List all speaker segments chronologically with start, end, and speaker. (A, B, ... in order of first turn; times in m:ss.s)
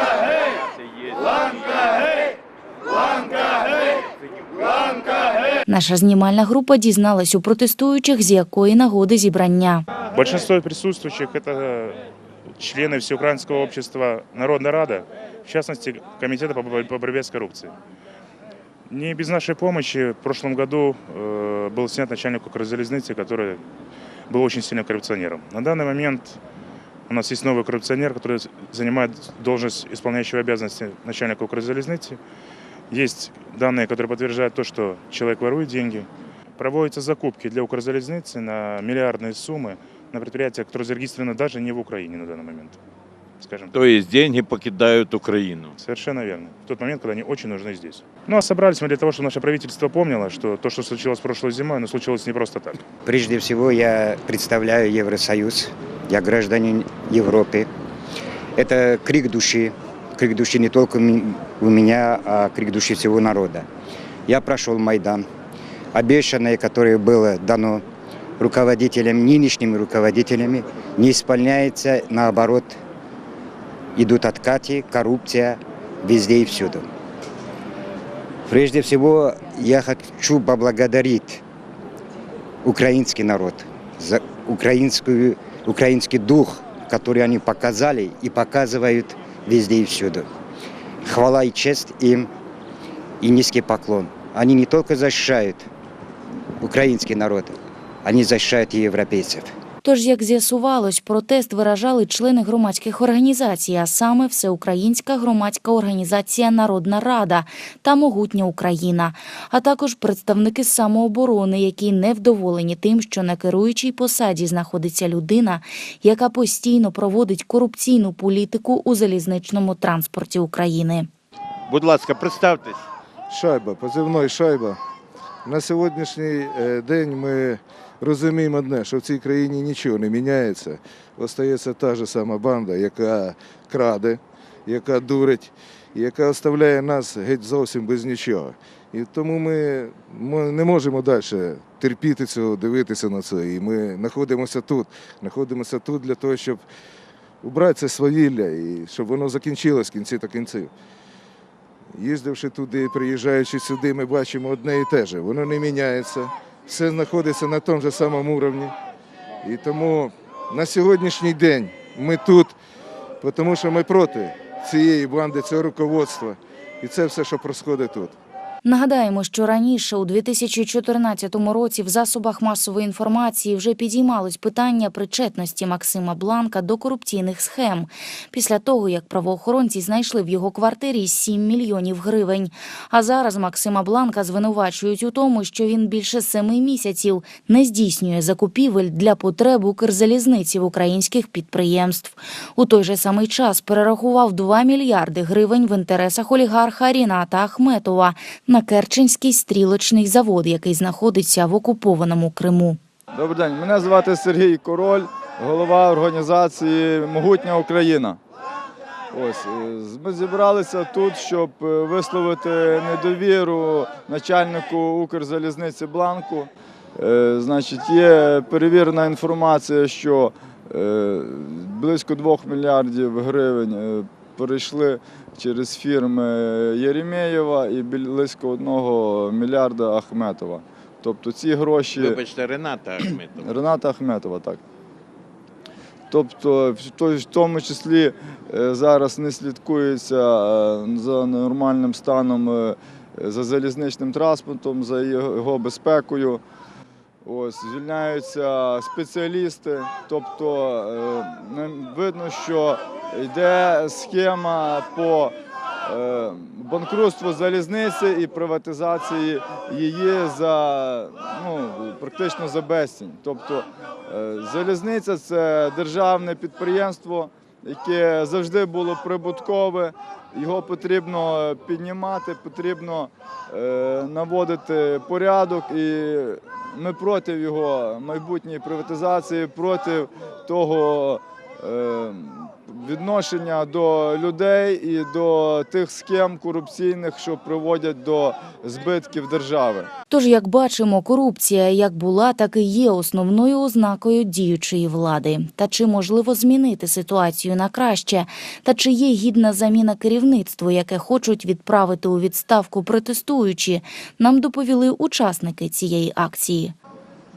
0:05.7-0:09.8 A
0:10.1-0:12.0 B
0:12.6-0:17.7 B
0:18.9-0:23.6 B
0:24.3-0:26.4 B
0:27.1-0:32.2 B
0:32.9-0:42.8 B
0:43.4-0:43.7 B
0:43.7-0:45.7 C
0:45.8-0:52.8 B
0:53.0-0:57.7 D
0:58.5-1:03.7 D
1:04.3-1:05.3 D
1:05.9-1:07.8 D
1:08.4-1:12.8 D
1:13.9-1:16.9 D
1:18.4-1:21.4 D
1:22.6-1:30.3 D
1:31.0-1:32.3 D
1:33.2-1:35.7 D
1:36.6-1:39.6 D
1:39.8-2:01.1 A
2:01.7-2:02.8 C
2:03.3-2:04.8 E
2:05.4-2:26.6 E
2:27.4-2:30.7 E
2:31.9-2:38.7 E
2:39.4-2:42.6 E
2:43.2-2:48.2 E
2:48.6-3:22.8 A
3:23.1-3:28.2 F
3:29.1-3:52.2 F
3:52.0-3:53.5 C
3:53.1-3:54.6 F
3:56.1-4:06.4 F
4:07.2-4:49.9 F
4:50.1-5:06.7 A